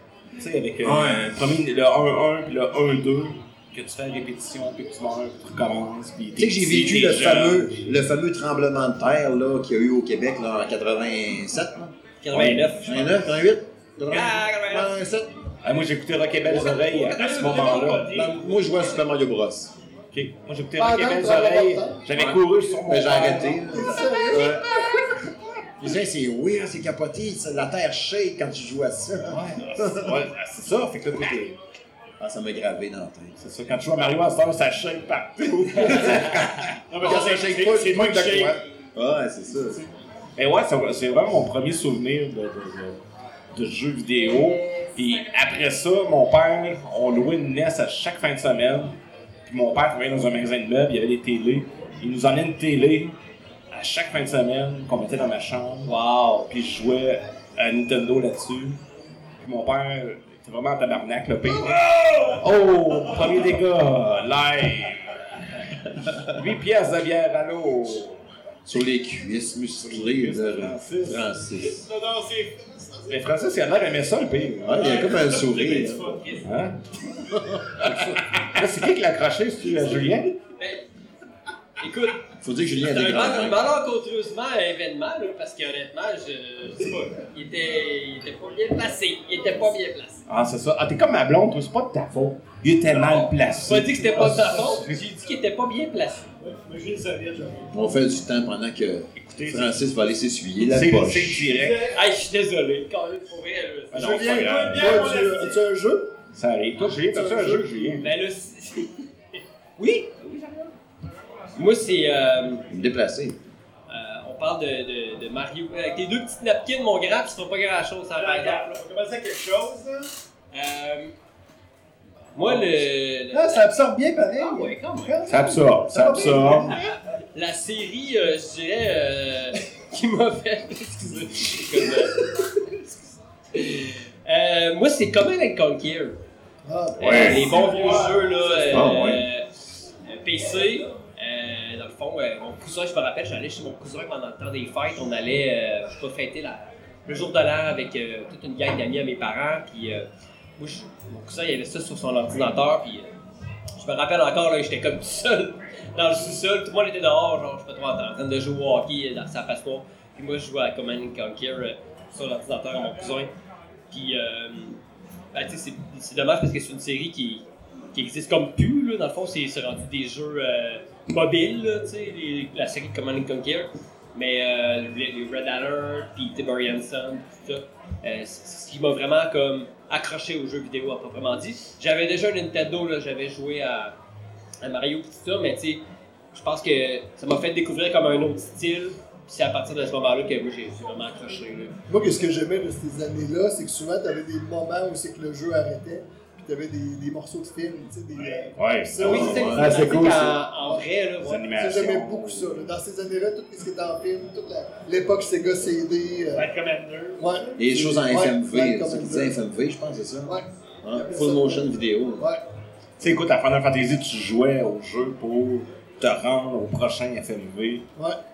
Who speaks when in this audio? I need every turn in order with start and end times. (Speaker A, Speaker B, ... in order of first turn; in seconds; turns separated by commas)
Speaker A: 0.4-7.9, Speaker B: 0.8-1.4, Speaker B: 6.3-15.3, Speaker C: 12.2-13.2, Speaker A: 12.3-12.7, Speaker C: 14.1-14.9, Speaker A: 15.6-18.2, Speaker D: 16.5-18.4, Speaker B: 18.1-19.7, Speaker A: 20.1-23.6, Speaker E: 20.8-22.0, Speaker B: 22.1-24.7, Speaker E: 22.6-25.1, Speaker B: 25.8-30.1, Speaker A: 29.3-31.6, Speaker B: 32.2-33.4, Speaker A: 33.4-36.8, Speaker B: 36.0-36.5, Speaker D: 36.9-38.6, Speaker B: 37.0-39.8, Speaker A: 40.4-43.0, Speaker A: 43.5-53.1, Speaker A: 53.7-55.9, Speaker C: 55.8-56.5, Speaker A: 56.5-58.8, Speaker A: 59.4-65.1, Speaker A: 66.2-68.2, Speaker B: 68.6-71.8, Speaker A: 69.8-71.3, Speaker D: 71.8-72.7, Speaker A: 73.1-75.3, Speaker B: 74.6-76.2, Speaker D: 74.8-76.3, Speaker A: 76.4-76.8, Speaker A: 77.8-80.4, Speaker C: 80.5-80.8, Speaker C: 81.8-90.2, Speaker B: 82.4-83.6, Speaker A: 90.3-95.0, Speaker C: 93.6-96.3, Speaker D: 94.1-94.5, Speaker D: 96.4-97.7, Speaker B: 97.7-101.5, Speaker A: 99.2-99.7, Speaker A: 100.6-101.9, Speaker D: 101.5-102.0, Speaker C: 101.8-104.2, Speaker A: 103.9-105.0, Speaker E: 104.0-106.1, Speaker D: 104.0-105.6, Speaker A: 106.3-108.1, Speaker E: 107.0-108.0, Speaker C: 108.0-109.0, Speaker C: 110.0-110.7, Speaker C: 111.5-112.7, Speaker B: 112.7-113.4, Speaker C: 113.9-118.7, Speaker D: 118.2-120.1, Speaker C: 120.5-121.1, Speaker C: 122.3-123.7, Speaker D: 122.4-122.8, Speaker D: 123.3-126.8, Speaker C: 124.4-125.2, Speaker A: 125.3-126.8, Speaker C: 126.5-132.3, Speaker C: 133.5-136.2, Speaker E: 136.6-138.1, Speaker A: 137.0-137.3, Speaker C: 137.0-139.5, Speaker D: 137.2-138.5, Speaker B: 138.7-139.2, Speaker C: 140.1-153.1, Speaker C: 153.8-163.3, Speaker C: 163.9-164.8, Speaker C: 165.3-183.9, Speaker C: 184.6-191.8, Speaker E: 191.9-200.9, Speaker A: 198.6-199.9, Speaker C: 199.0-201.5, Speaker B: 199.0-199.8, Speaker D: 199.5-200.3, Speaker A: 201.2-202.7, Speaker E: 201.5-206.5, Speaker D: 206.3-207.3, Speaker E: 207.2-209.3, Speaker B: 207.6-212.3, Speaker E: 210.2-212.4, Speaker A: 213.0-217.9